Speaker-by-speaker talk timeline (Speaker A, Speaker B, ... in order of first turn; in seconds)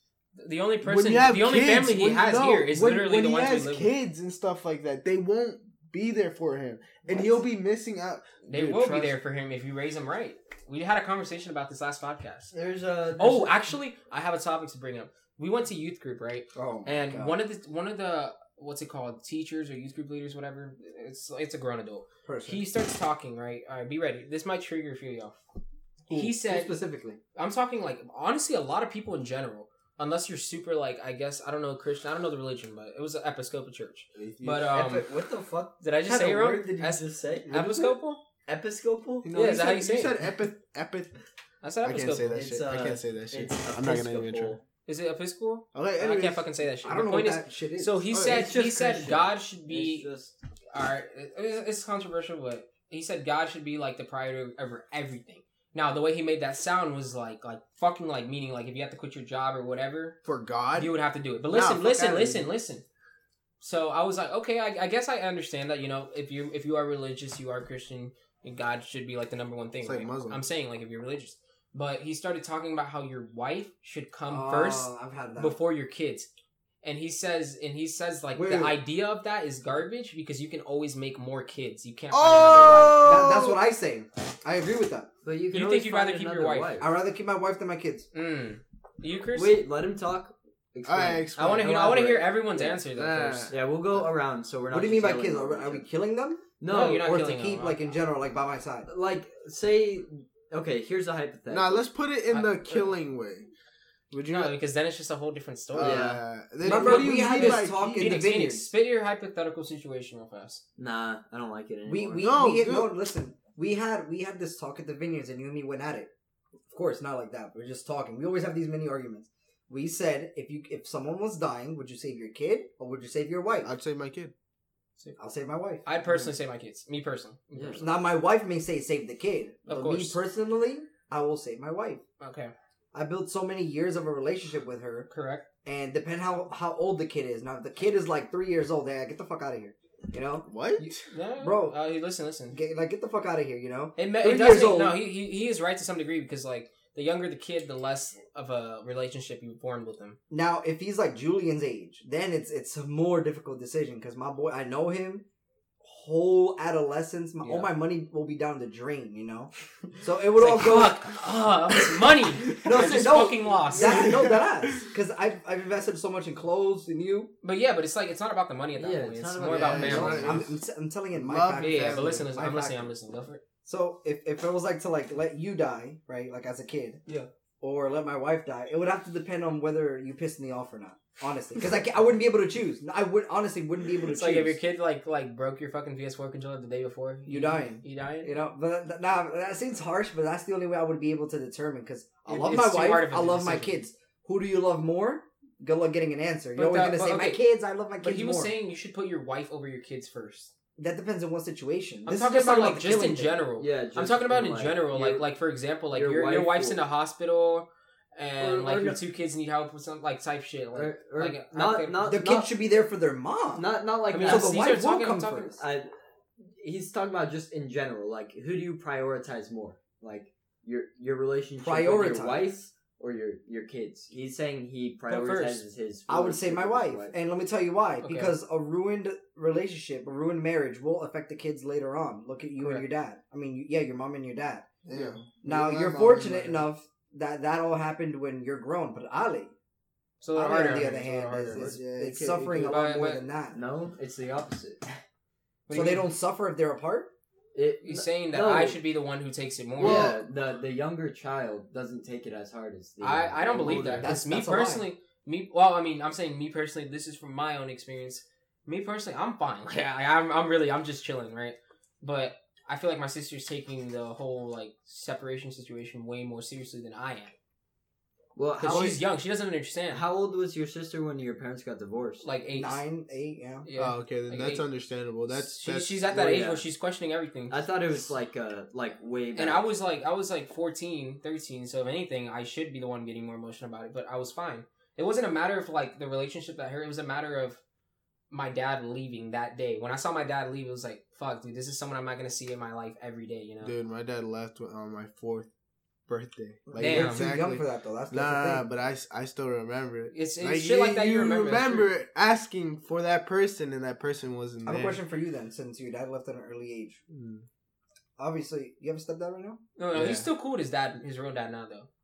Speaker A: 0.3-3.9, 8.4-12.5, 13.2-25.4, 26.1-26.8, 27.4-35.1, 35.8-38.2, 39.3-40.1, 41.6-42.5, 44.9-50.1, 50.7-60.2, 60.7-62.8, 63.6-76.3, 76.8-83.2, 85.5-86.8, 88.1-89.6, 91.3-93.5, 96.7-97.9, 102.3-102.9, 104.3-110.6, 125.8-127.9, 129.7-130.2, 132.2-132.5, 135.1-135.4, 141.1-142.6, 143.9-150.2, 160.3-164.1, 167.4-170.4, 171.6-173.4, 184.0-188.3, 192.3-193.8, 196.6-197.4, 198.0-200.5, 202.1-212.0, 214.1-215.6, 225.1-225.6, 228.0-228.3, 232.6-232.8, 240.2-241.8, 242.6-243.2, 245.7-246.1, 247.8-250.1, 253.0-267.3, 268.6-270.0, 272.2-272.8, 273.6-274.6, 275.3-277.6, 279.3-287.6, 288.3-293.7, 296.8-297.3, 300.1-301.9, 309.8-311.9
Speaker B: 0.8-9.2, 34.1-34.7, 37.6-37.9, 39.2-41.1, 41.8-44.6, 45.7-46.4, 48.1-48.5, 60.2-60.9, 61.5-62.5, 69.8-70.4, 82.1-83.6, 90.8-91.8, 92.9-93.7, 101.5-103.5, 104.1-104.5, 105.7-108.3, 112.2-112.9, 123.6-124.3, 140.4-141.0, 163.8-164.9, 169.5-170.6, 171.1-172.2, 234.8-236.7, 241.4-242.8, 249.8-250.2, 273.8-276.3, 293.6-295.5, 296.1-305.0, 307.1-307.4, 309.9-310.3
Speaker C: 12.5-13.7, 34.7-37.8, 38.5-39.3, 42.3-44.6, 48.1-50.3, 85.2-86.9, 89.3-92.8, 93.5-95.9, 96.6-97.1, 98.9-101.8, 105.8-106.2, 110.8-112.3, 127.5-127.9, 168.8-170.4, 203.6-205.3, 205.9-206.8, 208.4-209.0, 210.7-212.5, 213.6-214.7, 215.6-215.9, 216.6-227.1, 243.5-244.9, 247.5-248.8, 249.8-254.1, 268.4-269.0, 269.9-272.2, 276.1-276.6, 277.5-279.7
Speaker D: 16.5-17.4, 22.2-22.6, 26.1-27.2, 46.8-48.0, 74.3-75.6, 78.3-78.8, 83.0-85.1, 86.8-88.1, 94.7-98.9, 106.6-108.7, 111.8-116.1, 116.7-123.7, 125.2-125.8, 127.8-132.0, 132.9-135.1, 135.6-141.8, 142.5-145.0, 150.3-155.2, 155.8-161.0, 162.6-167.3, 169.6-172.9, 173.6-177.0, 177.6-184.6, 187.3-198.5, 200.8-203.4, 212.0-213.7, 214.2-215.6, 221.6-222.5, 226.1-234.7, 235.4-239.5, 240.3-243.6, 245.7-247.1, 253.7-254.9, 272.5-273.7, 296.7-298.6, 304.6-307.0, 308.2-309.6